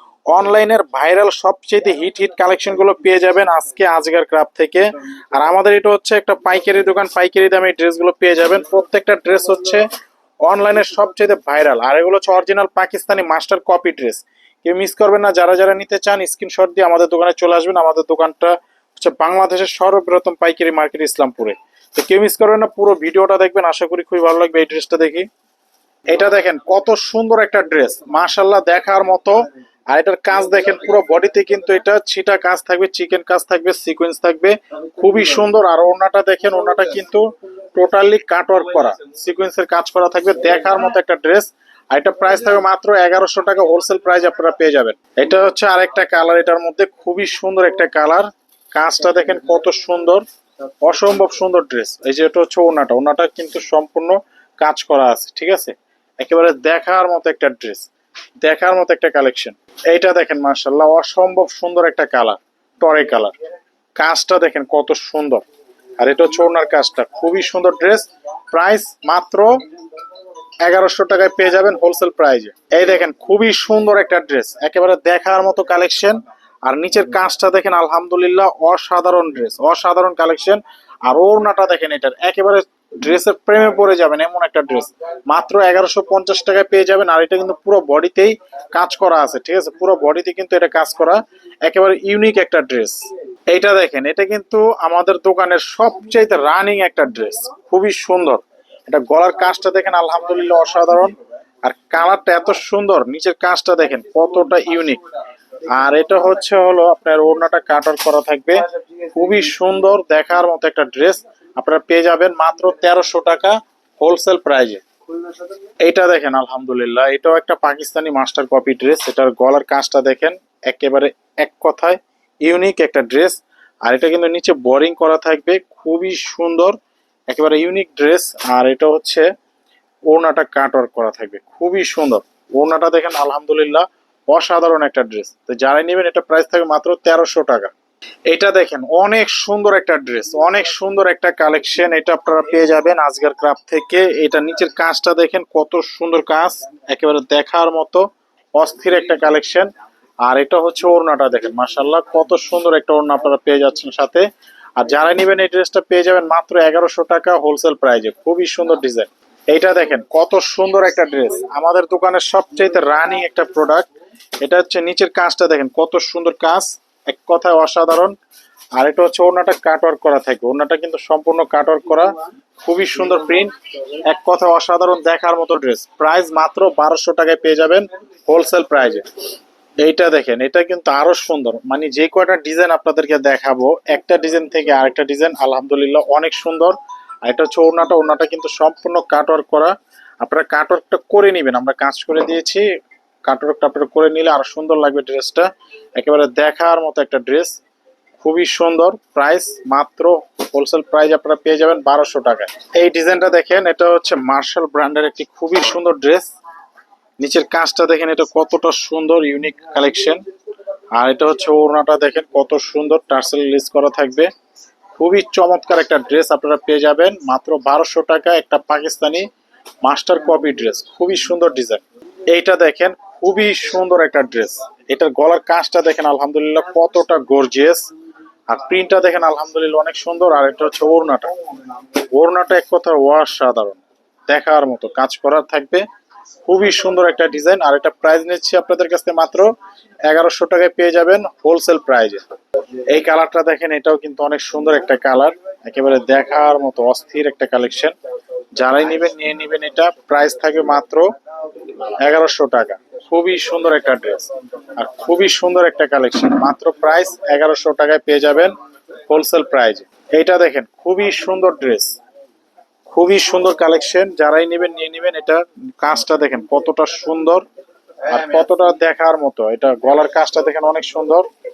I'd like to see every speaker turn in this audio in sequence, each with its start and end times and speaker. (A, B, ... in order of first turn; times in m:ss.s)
0:00.3-0:09.8 A
0:10.4-0:25.3 A
0:26.1-0:50.2 A
0:50.8-0:57.9 A
0:58.4-1:03.3 A
1:04.0-1:05.4 A
1:06.0-1:09.5 A
1:10.6-1:45.0 A
1:45.7-1:54.8 A
1:55.8-2:06.8 A
2:07.3-2:09.3 A
2:10.1-2:17.7 A
2:18.3-2:29.7 A
2:30.2-2:34.2 A
2:34.8-2:43.9 A
2:44.4-2:48.1 A
2:48.8-2:59.0 A
2:59.8-3:12.6 A
3:13.2-3:17.6 A
3:18.2-3:26.3 A
3:27.2-3:30.2 A
3:31.0-3:34.3 A
3:35.0-3:39.3 A
3:39.8-3:47.9 A
3:48.5-3:51.3 A
3:52.1-3:55.8 A
3:56.4-3:59.5 A
4:00.1-4:02.2 A
4:02.9-4:07.9 A
4:08.6-4:11.1 A
4:12.0-4:18.6 A
4:19.1-4:22.0 A
4:22.9-4:27.5 A
4:28.1-4:31.3 A